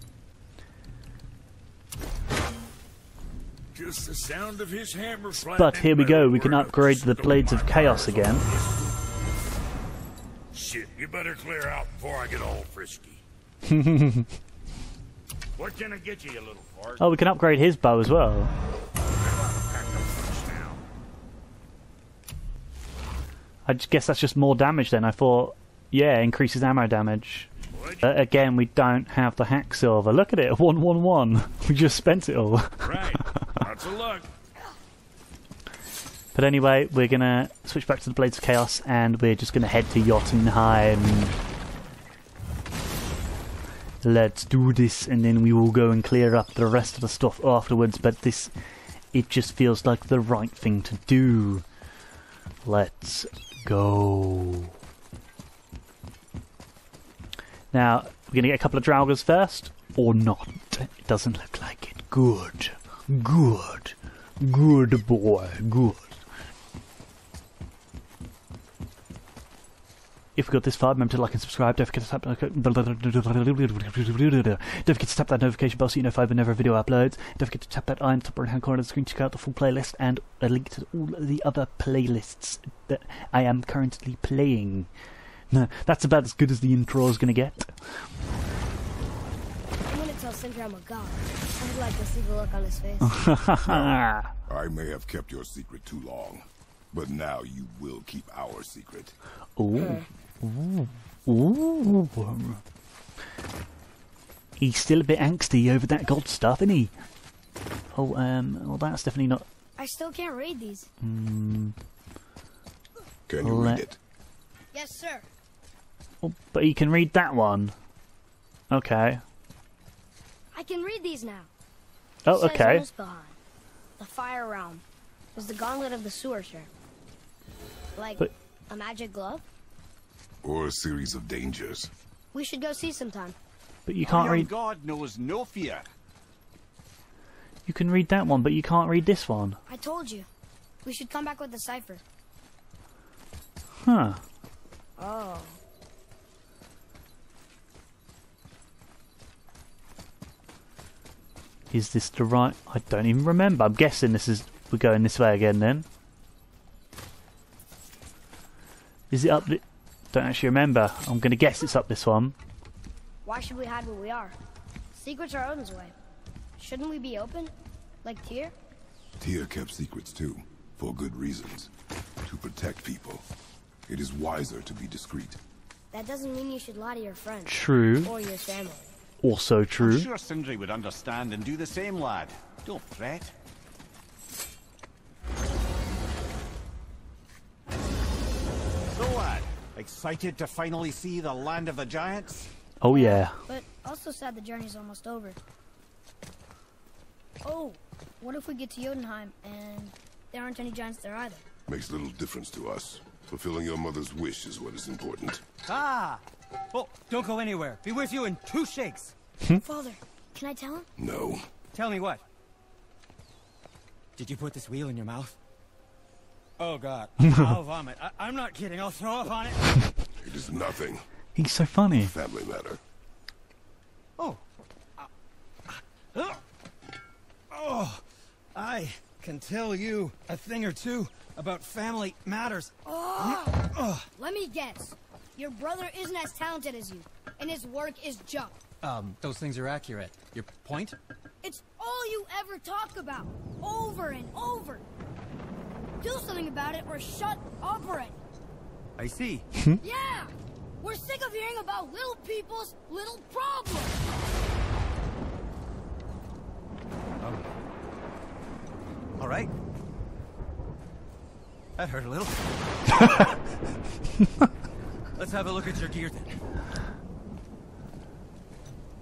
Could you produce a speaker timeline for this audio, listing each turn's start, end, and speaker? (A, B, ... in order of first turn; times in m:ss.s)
0:03.8-0:08.6 A
0:05.4-0:08.4 B
0:10.5-0:13.2 A
0:13.6-0:14.3 B
0:15.6-0:17.2 A
0:17.0-0:18.5 B
0:19.4-0:20.8 A
0:23.7-0:27.5 B
0:28.0-0:33.6 B
0:32.8-0:34.3 A
0:36.4-0:41.4 B
0:44.0-0:48.5 B
0:49.1-0:51.6 B
0:52.6-0:54.7 B
0:57.7-1:06.2 B
1:10.4-1:24.9 B
1:25.5-1:28.0 B
1:29.9-1:33.4 C
1:33.0-1:34.3 B
1:33.6-1:39.2 D
1:39.6-1:42.6 B
1:39.8-1:40.1 C
1:44.6-1:46.9 B
1:47.9-1:49.4 B
1:49.8-1:50.9 C
1:51.0-1:51.8 B
1:53.3-1:54.0 D
1:53.4-1:53.9 B
1:54.7-1:55.3 C
1:56.2-1:57.8 B
1:58.7-1:59.2 B
2:00.5-2:01.5 C
2:02.3-2:02.8 B
2:02.3-2:03.4 C
2:04.0-2:04.8 C
2:05.4-2:06.7 C
2:08.0-2:09.4 C
2:10.4-2:11.9 D
2:12.3-2:13.4 C
2:13.9-2:14.5 B
2:14.0-2:15.9 E
2:17.7-2:19.6 B
2:19.7-2:20.3 C
2:20.8-2:22.0 C
2:23.8-2:24.2 B
2:25.0-2:25.6 C
2:31.7-2:35.8 B
2:39.1-2:42.4 B
2:43.2-2:44.4 C
2:44.9-2:46.0 C
2:46.6-2:47.5 C
2:48.0-2:48.5 C
2:49.2-2:51.7 D
2:52.2-2:53.2 D
2:53.9-2:55.4 D
2:55.9-2:58.9 C
2:57.5-2:58.1 B
2:59.2-3:00.1 B
2:59.8-3:03.3 E
3:08.9-3:12.5 E
3:12.8-3:13.4 B
3:12.9-3:15.4 C
3:17.4-3:21.4 C
3:21.7-3:25.4 D
3:25.6-3:29.1 F
3:29.6-3:30.9 C
3:31.0-3:31.5 D
3:31.7-3:32.2 F
3:34.2-3:35.4 F
3:36.6-3:39.6 F
3:37.3-3:37.6 B
3:40.2-3:41.1 D
3:41.4-3:42.1 B
3:42.0-3:42.8 D
3:45.7-3:46.4 F
3:47.5-3:48.0 F
3:48.6-3:54.1 F
3:52.9-3:58.6 C
3:58.8-4:01.0 F
4:01.4-4:04.8 C
4:06.0-4:08.2 C
4:09.0-4:09.5 F
4:09.8-4:14.0 C
4:19.2-4:19.5 F
4:21.8-4:23.3 F
4:25.2-4:26.4 F